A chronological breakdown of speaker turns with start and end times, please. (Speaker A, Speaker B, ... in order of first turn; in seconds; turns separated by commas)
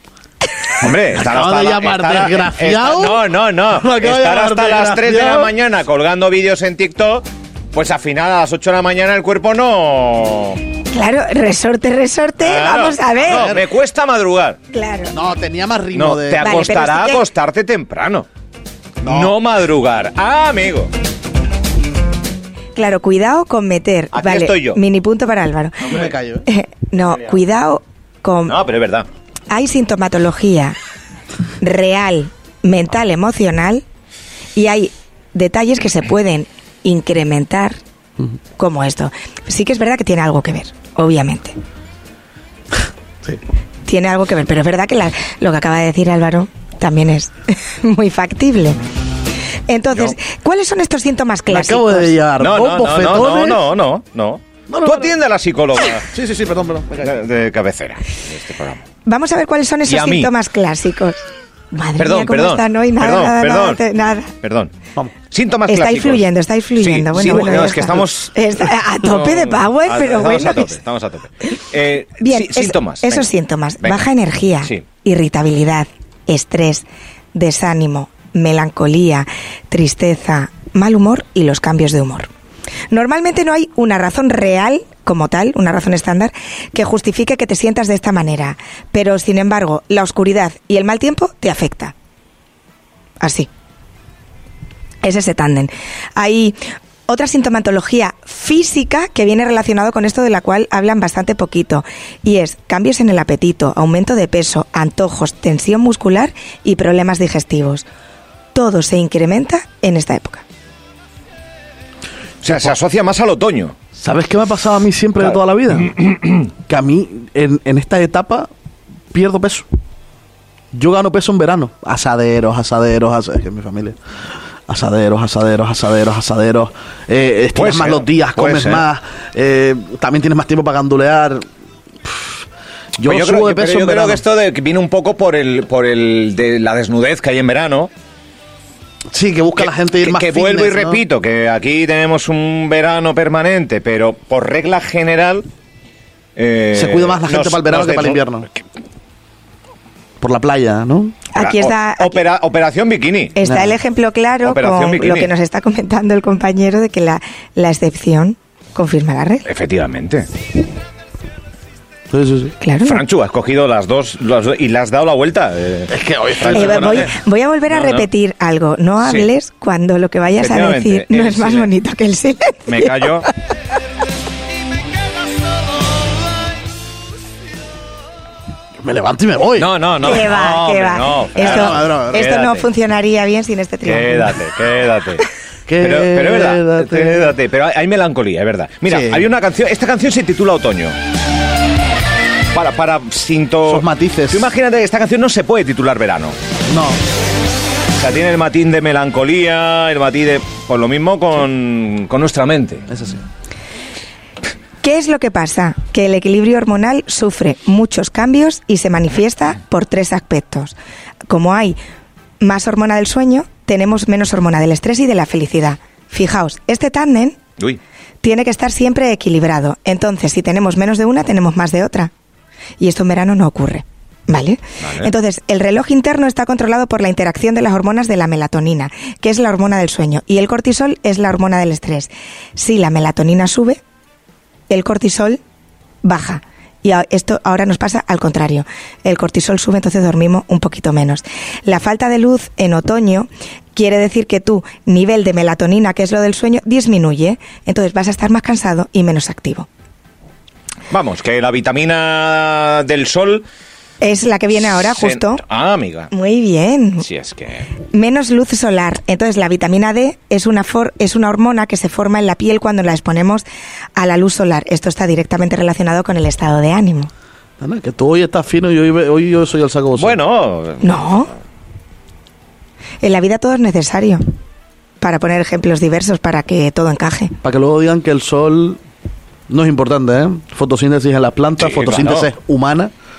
Speaker A: 0.8-10.6, Speaker B: 0.8-5.5, Speaker C: 10.9-13.5, Speaker A: 12.4-14.6, Speaker B: 13.3-13.7, Speaker C: 14.7-15.2, Speaker B: 15.1-16.5, Speaker A: 15.9-18.3, Speaker C: 16.4-17.2, Speaker B: 19.0-19.4, Speaker A: 19.1-20.9, Speaker C: 22.8-28.6, Speaker A: 24.1-24.8, Speaker B: 25.9-26.5, Speaker A: 28.5-29.1, Speaker C: 29.5-30.8, Speaker C: 31.6-33.8, Speaker C: 34.5-37.8, Speaker C: 38.6-41.6, Speaker C: 43.9-48.8, Speaker C: 49.7-52.1, Speaker B: 51.5-53.6, Speaker A: 52.4-56.1, Speaker B: 54.7-55.1, Speaker B: 56.0-57.2, Speaker A: 57.0-58.8, Speaker C: 59.0-64.3, Speaker A: 59.9-60.3, Speaker A: 62.0-63.8, Speaker A: 64.4-64.7, Speaker A: 65.3-66.2, Speaker C: 65.7-70.8, Speaker A: 66.8-68.3, Speaker B: 67.2-68.0, Speaker A: 69.0-73.3, Speaker C: 72.2-82.3, Speaker C: 82.9-91.9, Speaker C: 93.2-93.5, Speaker C: 95.0-107.8, Speaker C: 108.5-110.4, Speaker A: 112.4-113.8, Speaker B: 114.0-116.0, Speaker A: 115.9-116.4, Speaker B: 116.6-118.5, Speaker B: 119.1-119.7, Speaker B: 120.7-124.0, Speaker B: 124.7-131.5, Speaker A: 127.5-128.9, Speaker B: 132.0-132.4, Speaker B: 133.0-134.2, Speaker A: 133.0-137.9, Speaker B: 139.1-141.0, Speaker A: 139.6-145.5, Speaker A: 146.4-148.2, Speaker B: 146.7-148.5, Speaker B: 150.2-151.2, Speaker C: 151.3-152.2, Speaker A: 151.4-153.4, Speaker C: 153.4-159.5, Speaker B: 153.4-153.8, Speaker A: 154.4-155.3, Speaker A: 159.5-160.3, Speaker B: 162.1-162.6, Speaker C: 162.6-163.0, Speaker A: 162.8-167.1, Speaker B: 165.9-167.1, Speaker C: 166.5-173.3, Speaker A: 167.7-168.1, Speaker A: 169.0-169.3, Speaker A: 170.4-171.7, Speaker A: 172.7-173.3, Speaker B: 178.8-179.7, Speaker A: 179.6-182.7, Speaker C: 180.0-184.4, Speaker B: 181.4-182.3, Speaker A: 183.8-185.2, Speaker B: 185.7-187.3, Speaker A: 185.8-190.9, Speaker B: 188.9-189.3, Speaker A: 192.5-196.4, Speaker B: 193.7-194.5, Speaker B: 196.7-197.0, Speaker A: 198.0-202.9, Speaker B: 202.9-203.2, Speaker C: 204.8-210.8, Speaker C: 211.3-211.8, Speaker C: 212.4-217.4, Speaker C: 218.2-222.1, Speaker C: 222.8-233.8, Speaker A: 224.8-225.1, Speaker C: 234.7-235.4, Speaker C: 236.0-249.7, Speaker A: 250.9-253.4, Speaker C: 254.0-255.4, Speaker A: 254.7-256.1, Speaker C: 256.1-257.1, Speaker A: 257.0-257.7, Speaker C: 257.9-263.4, Speaker C: 264.0-267.1, Speaker B: 267.6-270.2, Speaker A: 270.0-271.0, Speaker C: 270.8-271.3, Speaker C: 273.0-274.2, Speaker C: 275.0-277.4, Speaker B: 277.4-278.8, Speaker B: 279.5-282.9, Speaker A: 281.6-282.3